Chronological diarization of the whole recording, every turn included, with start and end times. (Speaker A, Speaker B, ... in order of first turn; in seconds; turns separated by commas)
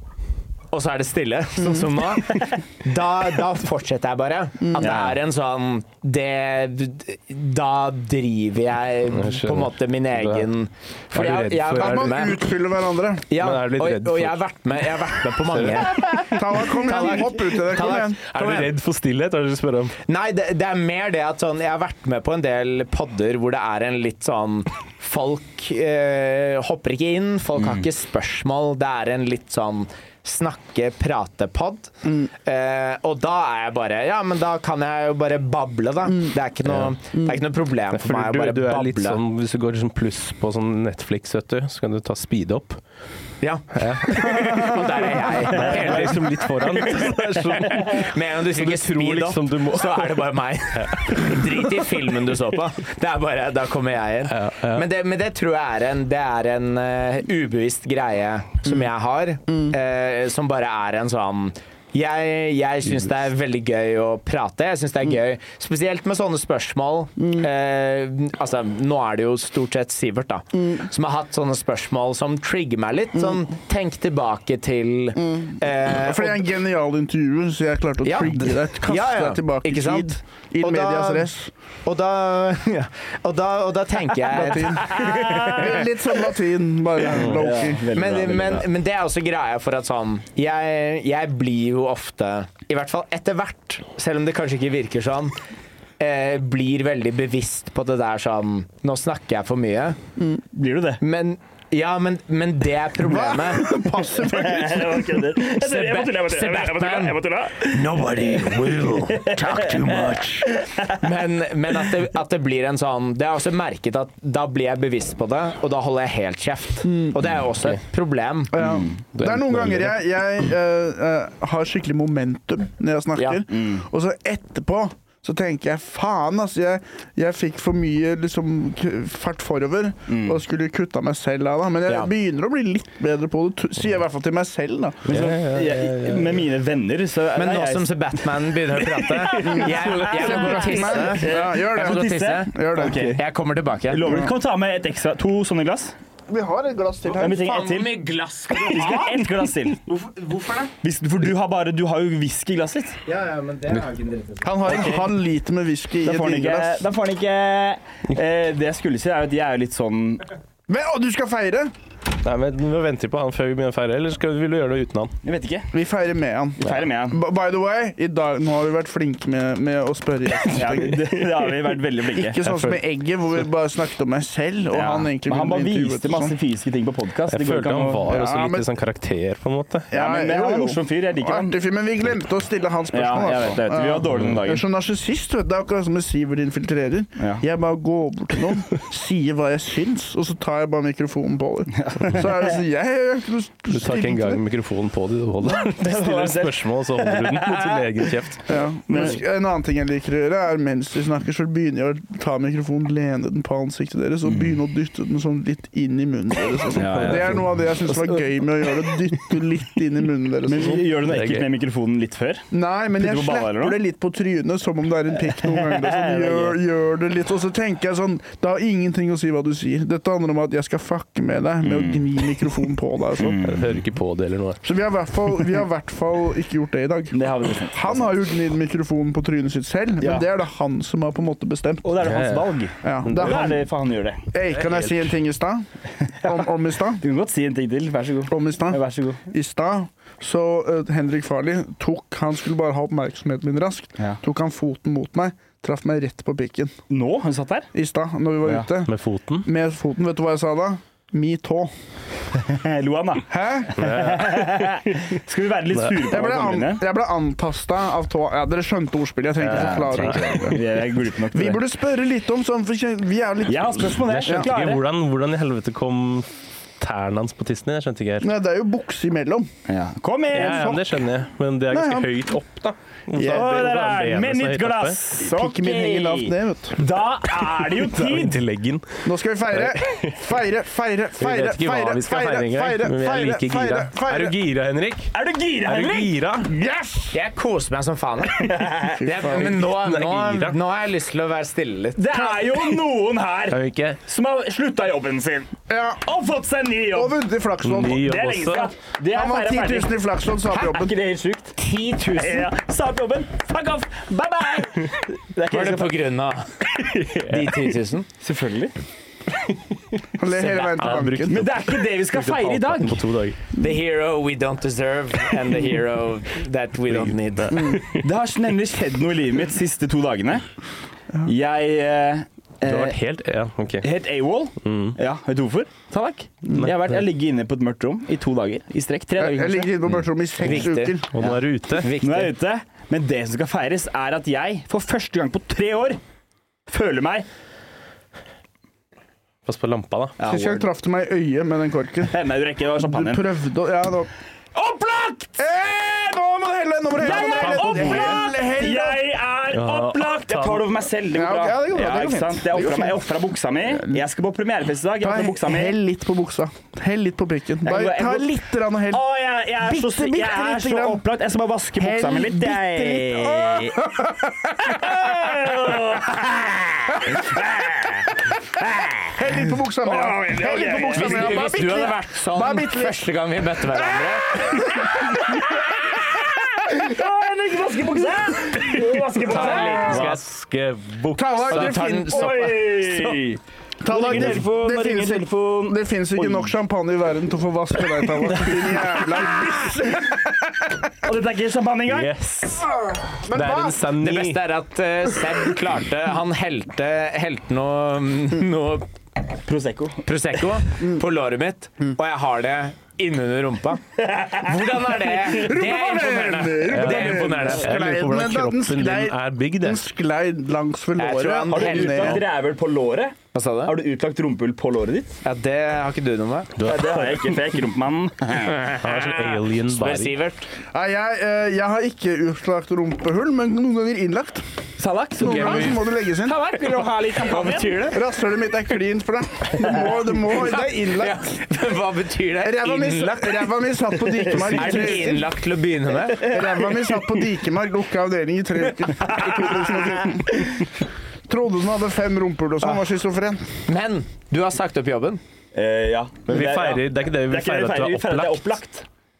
Speaker A: 0.7-12.4, Speaker B: 4.6-4.9, Speaker C: 4.8-5.1, Speaker D: 9.1-10.5, Speaker D: 11.1-12.2, Speaker B: 11.7-13.3, Speaker A: 13.3-18.7, Speaker D: 13.3-14.4, Speaker D: 15.4-16.4, Speaker B: 16.3-18.2, Speaker D: 18.3-20.0, Speaker A: 20.1-39.2, Speaker C: 27.6-27.8, Speaker D: 36.7-36.9, Speaker D: 37.9-42.8, Speaker A: 43.4-76.4, Speaker D: 43.8-50.2, Speaker D: 50.8-51.4, Speaker D: 54.3-54.9, Speaker B: 75.2-81.5, Speaker A: 78.0-81.3, Speaker A: 81.8-85.9, Speaker B: 84.3-87.8, Speaker C: 84.9-85.7, Speaker C: 87.2-88.7, Speaker A: 87.9-95.3, Speaker A: 96.0-100.0, Speaker C: 100.5-101.0, Speaker A: 101.0-103.7, Speaker B: 103.0-105.1, Speaker C: 104.2-111.0, Speaker A: 105.5-118.5, Speaker B: 116.9-117.1, Speaker B: 118.5-135.2, Speaker C: 118.6-119.0, Speaker D: 119.1-119.9, Speaker C: 123.5-123.8, Speaker C: 130.1-130.4, Speaker C: 135.1-138.0, Speaker D: 135.1-136.3, Speaker A: 137.3-144.1, Speaker C: 138.8-143.2, Speaker B: 139.4-143.2, Speaker C: 143.9-145.9, Speaker B: 144.0-144.3, Speaker B: 146.3-147.6, Speaker C: 147.2-147.9, Speaker A: 147.4-149.3, Speaker C: 148.5-149.8, Speaker A: 149.8-150.7, Speaker C: 150.8-153.0, Speaker A: 153.1-154.6, Speaker B: 154.4-156.8, Speaker C: 154.7-155.1, Speaker C: 156.0-160.2, Speaker B: 160.7-161.7, Speaker D: 162.2-165.1, Speaker C: 165.2-165.7, Speaker B: 165.7-171.2, Speaker C: 166.6-167.2, Speaker C: 170.5-172.4, Speaker B: 172.1-176.3, Speaker D: 172.5-172.8, Speaker C: 174.7-178.1, Speaker D: 177.3-179.9, Speaker B: 178.1-178.7, Speaker B: 179.9-194.4, Speaker C: 179.9-181.6, Speaker C: 182.9-184.6, Speaker C: 191.8-192.2, Speaker D: 193.7-198.5, Speaker C: 195.6-197.8, Speaker B: 198.5-210.8, Speaker C: 198.9-199.2, Speaker C: 206.7-208.2, Speaker D: 206.9-207.4, Speaker C: 210.4-213.8, Speaker D: 211.1-211.5, Speaker B: 212.5-223.4, Speaker C: 215.4-216.6, Speaker C: 221.6-222.0, Speaker C: 223.2-223.8, Speaker D: 223.4-224.6, Speaker B: 224.6-231.9, Speaker C: 227.1-228.1, Speaker C: 230.0-230.3, Speaker C: 231.8-234.2, Speaker D: 232.0-232.5, Speaker B: 232.8-233.6, Speaker D: 233.0-233.4, Speaker B: 234.3-235.7, Speaker D: 234.5-235.0, Speaker B: 236.2-237.0, Speaker C: 237.0-239.2, Speaker B: 238.3-246.7, Speaker C: 246.9-247.7, Speaker B: 247.7-248.9, Speaker D: 248.8-249.5, Speaker B: 249.4-251.7, Speaker C: 252.3-256.8, Speaker B: 253.3-253.8, Speaker D: 253.8-254.9, Speaker B: 256.1-260.6, Speaker C: 259.4-261.6, Speaker D: 259.5-260.5, Speaker B: 261.3-264.5, Speaker C: 263.4-264.8, Speaker D: 264.1-266.3, Speaker D: 266.8-268.3, Speaker B: 268.2-269.5, Speaker C: 269.7-270.8, Speaker D: 270.3-275.0, Speaker B: 270.4-270.8, Speaker B: 271.7-272.1, Speaker B: 273.1-273.5, Speaker C: 273.2-278.4, Speaker B: 275.2-276.8, Speaker D: 277.8-279.0, Speaker B: 279.0-284.4, Speaker D: 279.6-280.1, Speaker D: 281.2-285.1, Speaker C: 285.1-286.1, Speaker D: 285.6-286.5, Speaker B: 286.4-287.1, Speaker A: 287.1-292.0, Speaker C: 288.4-289.0, Speaker B: 289.0-289.6, Speaker D: 289.6-290.6, Speaker C: 292.0-297.2, Speaker D: 293.5-294.0, Speaker B: 295.7-296.0, Speaker B: 296.9-298.1, Speaker D: 297.6-298.7, Speaker C: 297.9-299.9, Speaker B: 299.1-300.9, Speaker C: 300.4-301.6, Speaker A: 301.6-302.5, Speaker C: 302.1-305.9, Speaker A: 305.5-308.1, Speaker D: 306.8-307.6, Speaker C: 308.2-308.7, Speaker B: 310.2-311.4, Speaker A: 310.3-311.0, Speaker D: 310.8-313.4, Speaker C: 311.3-313.0, Speaker A: 313.6-317.8, Speaker D: 316.9-318.0, Speaker B: 317.5-317.8, Speaker C: 317.8-320.5, Speaker C: 321.2-323.0, Speaker D: 322.6-323.9, Speaker C: 323.8-329.9, Speaker D: 324.6-325.0, Speaker D: 326.6-327.0, Speaker B: 329.2-331.1, Speaker A: 330.4-331.0, Speaker D: 331.1-331.9, Speaker A: 331.8-332.3, Speaker C: 332.0-336.0, Speaker C: 336.7-337.3, Speaker D: 339.4-340.2, Speaker C: 340.2-340.6, Speaker B: 340.2-342.1, Speaker C: 342.1-343.3, Speaker B: 342.8-344.1, Speaker C: 344.6-345.2, Speaker B: 345.3-349.0, Speaker C: 347.0-355.8, Speaker D: 347.1-348.2, Speaker D: 349.5-350.7, Speaker B: 351.1-353.0, Speaker B: 355.0-359.0, Speaker C: 357.6-363.8, Speaker B: 359.6-361.0, Speaker B: 361.8-365.5, Speaker C: 364.8-369.2, Speaker B: 369.1-373.0, Speaker C: 369.8-371.4, Speaker A: 370.9-374.7, Speaker B: 374.0-375.5, Speaker C: 374.9-380.0, Speaker A: 379.2-380.2, Speaker B: 379.3-380.0, Speaker D: 379.8-381.8, Speaker B: 381.1-382.5, Speaker A: 381.5-383.2, Speaker C: 382.1-386.5, Speaker B: 383.8-390.8, Speaker C: 391.0-392.1, Speaker D: 391.9-392.7, Speaker B: 392.8-393.8, Speaker D: 393.3-394.4, Speaker A: 394.0-398.9, Speaker C: 399.4-400.1, Speaker A: 400.0-407.7, Speaker C: 404.0-404.5, Speaker B: 405.3-412.2, Speaker D: 406.7-409.8, Speaker A: 411.0-412.2, Speaker C: 411.5-415.2, Speaker A: 413.3-413.7, Speaker A: 415.2-416.5, Speaker D: 416.6-417.2, Speaker C: 416.6-418.6, Speaker A: 418.4-420.5, Speaker D: 418.8-420.1, Speaker B: 420.7-424.4, Speaker C: 424.8-427.8, Speaker B: 425.2-426.4, Speaker A: 425.2-425.8, Speaker A: 426.6-428.0, Speaker B: 427.9-431.4, Speaker A: 430.3-433.5, Speaker B: 432.4-435.2, Speaker C: 434.2-435.1, Speaker A: 434.3-436.3, Speaker B: 436.1-440.5, Speaker C: 436.2-437.0, Speaker C: 439.0-439.9, Speaker A: 439.2-439.7, Speaker B: 441.3-443.5, Speaker A: 443.7-445.2, Speaker C: 445.5-448.9, Speaker D: 446.3-448.6